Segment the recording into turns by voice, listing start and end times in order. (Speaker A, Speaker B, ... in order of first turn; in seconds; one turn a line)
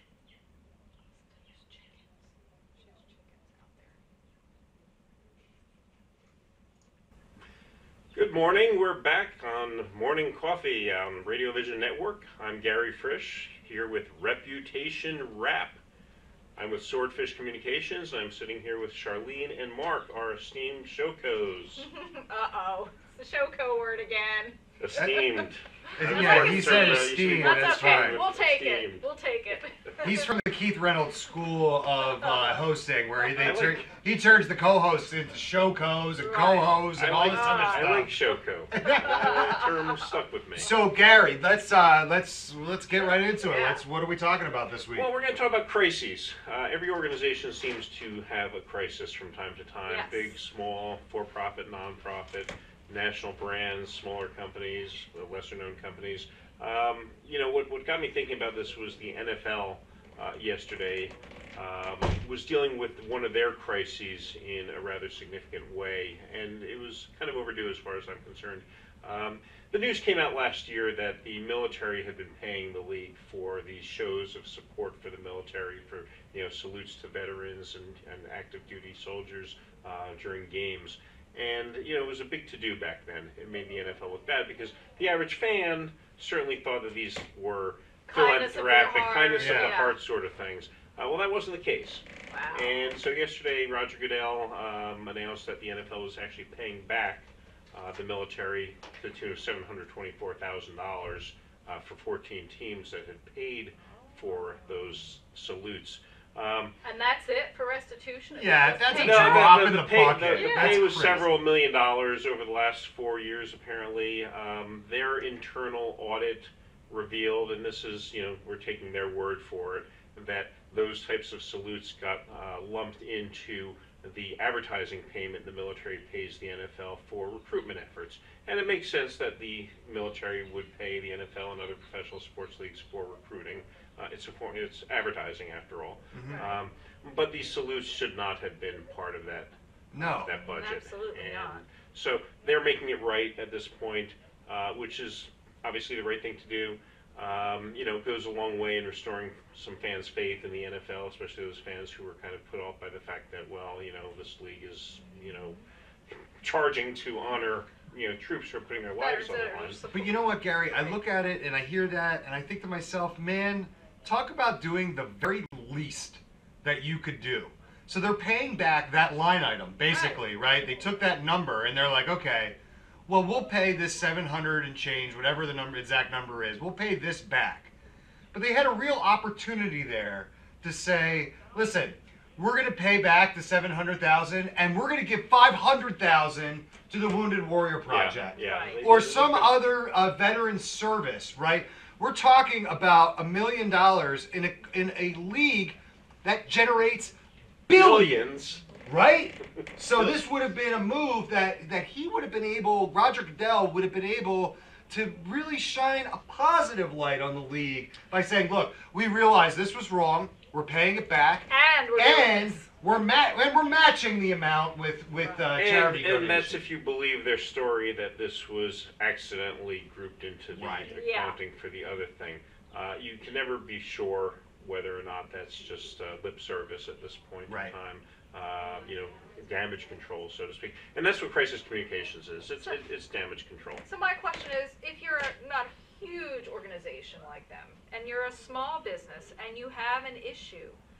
Speaker A: 1.0-4.0
Speaker B: 8.1-15.8
Speaker B: 16.6-21.9
Speaker A: 21.8-30.3
Speaker B: 24.8-29.1
Speaker C: 24.9-25.3
Speaker C: 26.0-28.2
Speaker C: 30.0-38.1
Speaker A: 32.2-32.6
Speaker B: 33.4-33.9
Speaker A: 36.2-38.0
Speaker B: 37.0-40.7
Speaker C: 38.7-39.7
Speaker A: 38.8-39.8
Speaker C: 40.5-45.1
Speaker A: 43.4-43.8
Speaker B: 44.9-106.7
Speaker A: 49.9-50.3
Speaker A: 88.1-90.0
Speaker C: 89.3-89.8
Speaker A: 92.3-92.9
Speaker A: 103.8-105.1
Speaker A: 106.8-109.5
Speaker C: 108.3-111.3
Speaker B: 108.9-155.6
Speaker A: 110.3-110.9
Speaker C: 136.1-136.4
Speaker A: 136.2-136.5
Speaker C: 139.9-140.4
Speaker A: 140.3-141.6
Speaker A: 154.9-155.6
Speaker B: 156.1-159.8
Speaker A: 158.9-161.0
Speaker C: 159.9-177.7
Speaker A: 169.9-170.2
Speaker C: 178.3-197.1
Speaker B: 187.9-189.7
Speaker A: 188.3-188.8
Speaker C: 197.7-198.2
Speaker B: 197.7-198.6
Speaker C: 198.8-216.6
Speaker A: 211.5-212.7
Speaker A: 215.2-215.4
Speaker B: 215.6-233.8
Speaker C: 220.6-220.9
Speaker A: 220.8-221.4
Speaker C: 227.5-227.7
Speaker A: 228.6-228.8
Speaker A: 233.8-240.8